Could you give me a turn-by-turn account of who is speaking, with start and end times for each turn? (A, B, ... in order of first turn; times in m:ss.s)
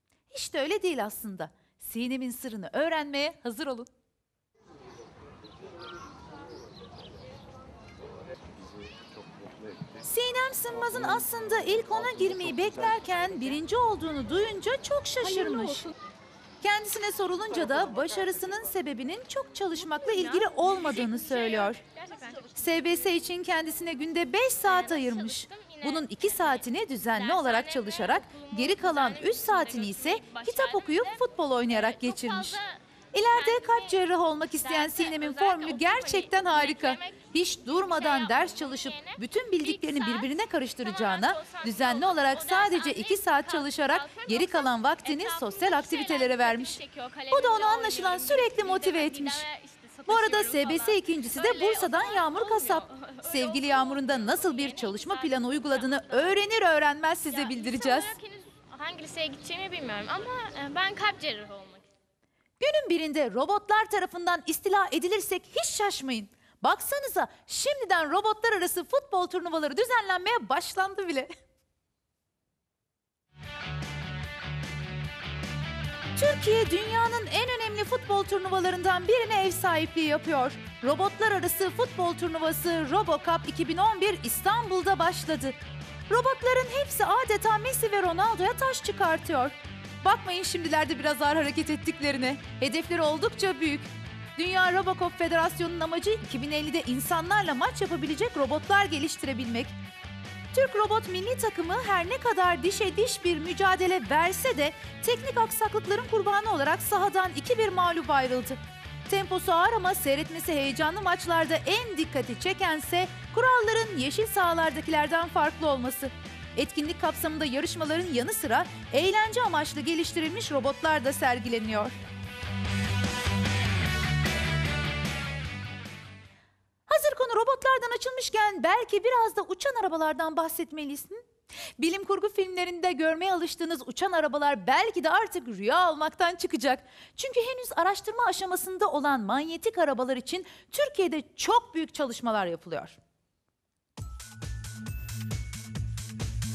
0:00.3-0:03.9 A
0:10.0-0:15.9 A
0:16.6-0:21.8 A
0:20.1-0:22.6 B
0:22.6-0:32.6 A
0:24.6-0:32.8 B
0:33.1-0:49.4 A
0:33.3-0:33.9 B
0:34.6-0:56.4 B
0:50.1-0:58.1 A
0:57.3-1:01.8 B
1:02.6-1:11.3 A
1:16.1-1:25.6 A
1:26.1-1:39.7 A
1:40.5-2:01.9 A
2:06.9-2:11.2 A
2:11.8-2:23.0 A